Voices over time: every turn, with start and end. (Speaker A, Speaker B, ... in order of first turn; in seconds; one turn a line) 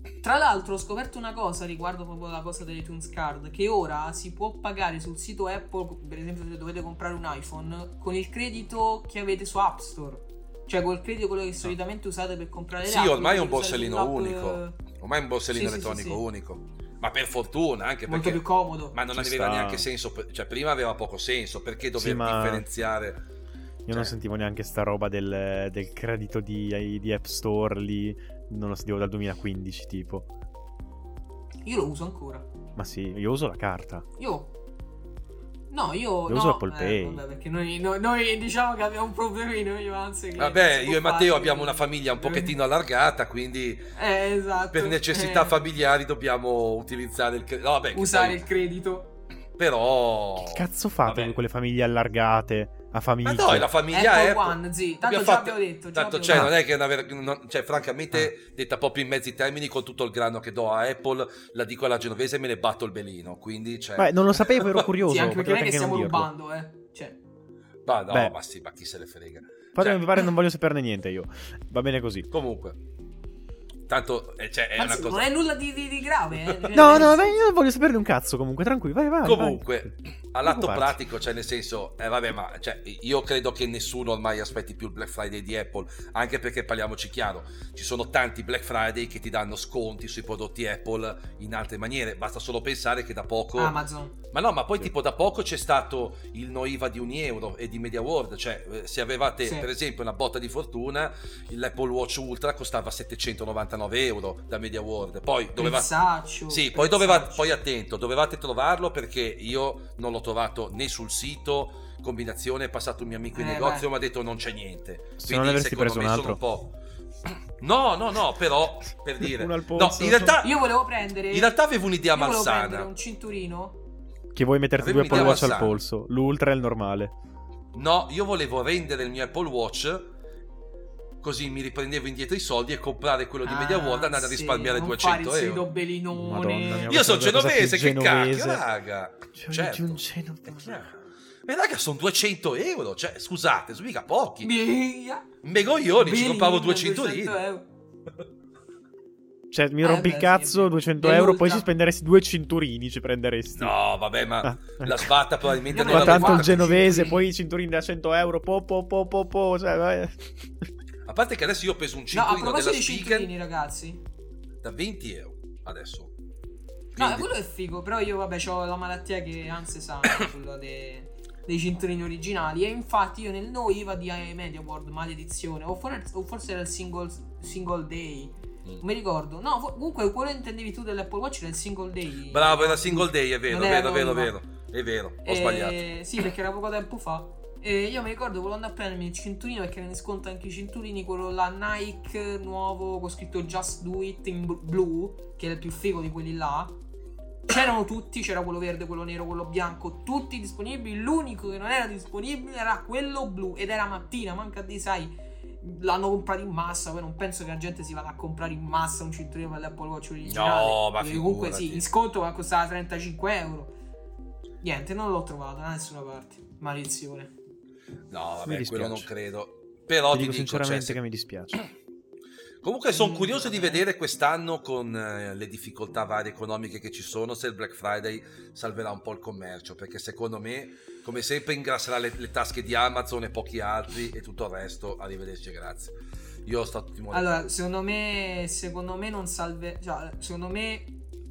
Speaker A: 0.2-14.8
Speaker B: 12.8-23.2
Speaker A: 15.5-16.2
Speaker A: 18.1-19.0
Speaker C: 19.1-19.9
Speaker C: 22.0-22.7
Speaker C: 23.9-30.3
Speaker A: 31.6-32.5
Speaker C: 32.8-34.0
Speaker A: 34.2-34.5
Speaker A: 35.7-42.5
Speaker C: 36.3-37.2
Speaker B: 40.4-43.9
Speaker A: 44.0-45.6
Speaker B: 44.7-48.4
Speaker A: 47.9-49.1
Speaker B: 49.6-51.4
Speaker C: 50.4-53.7
Speaker B: 53.2-64.9
Speaker A: 53.9-56.5
Speaker C: 56.3-56.5
Speaker C: 64.0-66.3
Speaker A: 65.1-67.2
Speaker B: 67.9-70.2
Speaker C: 69.8-72.3
Speaker B: 72.3-72.8
Speaker B: 73.9-75.3
Speaker A: 74.8-77.4
Speaker B: 76.5-77.1
Speaker C: 76.8-79.9
Speaker B: 79.2-93.8
Speaker C: 80.5-81.0
Speaker A: 93.6-94.2
Speaker B: 94.3-116.7
Speaker A: 99.4-99.7
Speaker A: 105.6-107.5
Speaker A: 113.3-113.9
Speaker C: 115.2-116.4
Speaker B: 117.3-120.5
Speaker C: 119.2-120.4
Speaker A: 120.4-121.5
Speaker B: 121.3-122.9
Speaker A: 122.1-123.8
Speaker C: 124.3-127.1
Speaker B: 124.8-125.8
Speaker A: 125.0-125.7
Speaker B: 127.7-130.1
Speaker B: 131.2-135.7
Speaker A: 133.4-137.0
Speaker C: 136.1-138.7
Speaker B: 136.7-144.5
Speaker C: 139.3-140.8
Speaker A: 144.4-145.3
Speaker B: 145.4-147.4
Speaker A: 146.0-147.7
Speaker C: 149.5-153.8
Speaker A: 149.8-151.7
Speaker B: 153.6-157.0
Speaker C: 154.4-155.1
Speaker A: 155.7-157.2
Speaker C: 155.8-160.7
Speaker B: 161.1-163.3
Speaker A: 162.1-164.0
Speaker B: 164.6-166.1
Speaker B: 166.9-167.3
Speaker A: 167.0-184.3
Speaker B: 182.3-185.8
Speaker A: 185.2-196.8
Speaker A: 197.5-213.8
Speaker B: 210.3-211.8
Speaker A: 214.6-217.3
Speaker B: 218.1-221.0
Speaker C: 218.5-219.1
Speaker C: 220.1-221.6
Speaker B: 222.6-237.4
Speaker A: 222.9-223.8
Speaker A: 237.1-241.0